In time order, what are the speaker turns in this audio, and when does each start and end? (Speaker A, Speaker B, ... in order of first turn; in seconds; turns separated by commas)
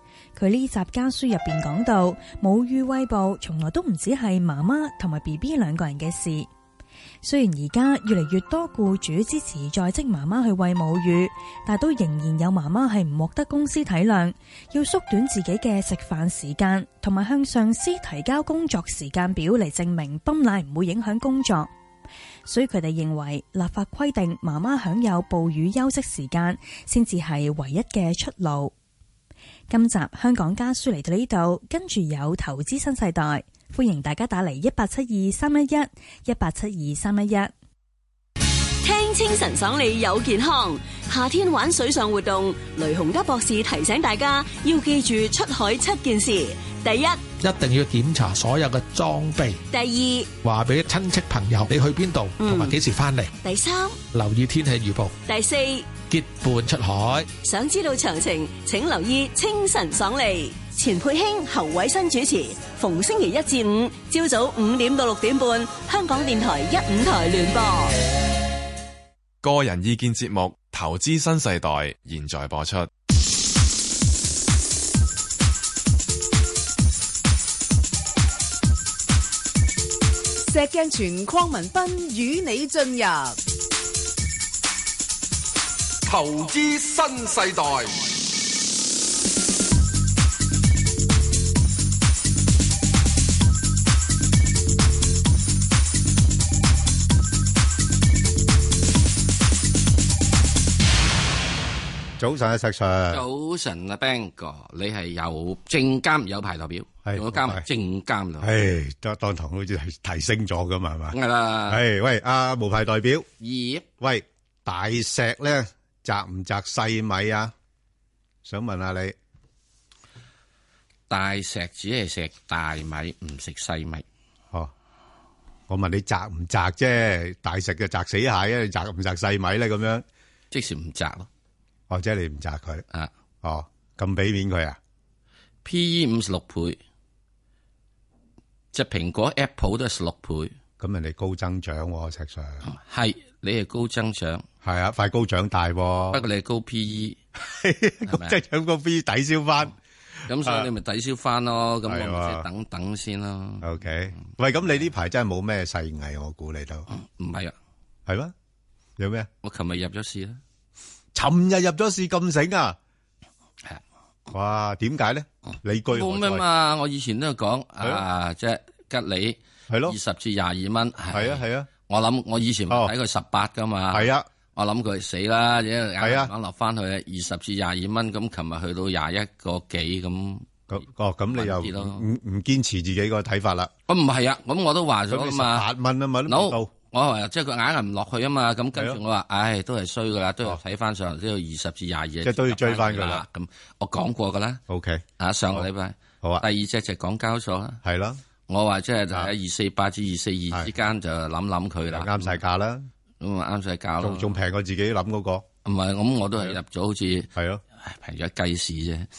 Speaker A: 0.3-6.5, Speaker A: 7.2-21.7, Speaker A: 22.4-28.7, Speaker A: 29.7-37.5, Speaker B: 38.8-47.3, Speaker C: 47.3-49.6, Speaker B: 49.7-50.3, Speaker C: 50.4-53.3, Speaker B: 52.4-52.7, Speaker B: 53.4-54.0, Speaker C: 54.1-55.2, Speaker B: 55.2-56.0, Speaker C: 56.0-57.3, Speaker B: 57.4-67.9, Speaker D: 69.4-72.9, Speaker E: 80.5-83.4, Speaker F: 86.0-88.0, Speaker G: 102.2-103.2, Speaker H: 103.1-108.5, Speaker G: 107.0-107.6, Speaker G: 108.4-111.2, Speaker H: 111.1-111.8, Speaker G: 111.7-113.3, Speaker H: 113.4-113.9, Speaker G: 114.0-117.5, Speaker G: 118.4-119.2, Speaker H: 121.1-124.0, Speaker G: 125.7-130.0, Speaker H: 130.5-131.3, Speaker G: 131.9-132.8, Speaker G: 133.4-134.8, Speaker H: 135.6-136.8, Speaker H: 138.7-140.5, Speaker G: 140.8-142.6, Speaker H: 142.6-144.4, Speaker G: 144.6-146.2, Speaker H: 146.1-147.2, Speaker G: 147.3-149.7, Speaker H: 148.1-148.4, Speaker H: 150.3-153.7, Speaker G: 150.4-150.7, Speaker G: 151.9-152.4, Speaker G: 153.6-156.9, Speaker H: 156.9-157.5, Speaker G: 158.1-158.3, Speaker G: 159.0-159.3, Speaker H: 159.4-160.4, Speaker G: 161.1-162.8, Speaker G: 164.3-166.4, Speaker H: 165.9-180.5, Speaker G: 169.7-169.9, Speaker G: 171.1-171.7, Speaker G: 173.9-174.2, Speaker G: 176.0-176.3, Speaker G: 180.7-183.7, Speaker H: 181.3-182.0, Speaker H: 183.9-185.7, Speaker G: 185.1-186.7, Speaker H: 186.3-194.6, Speaker G: 192.2-193.2, Speaker G: 194.7-195.7, Speaker H: 195.2-197.8, Speaker G: 197.8-198.2, Speaker H: 198.5-202.4, Speaker G: 201.9-202.9, Speaker H: 203.2-204.3, Speaker G: 204.0-205.4, Speaker H: 205.6-207.3, Speaker G: 207.3-207.6, Speaker H: 207.8-209.1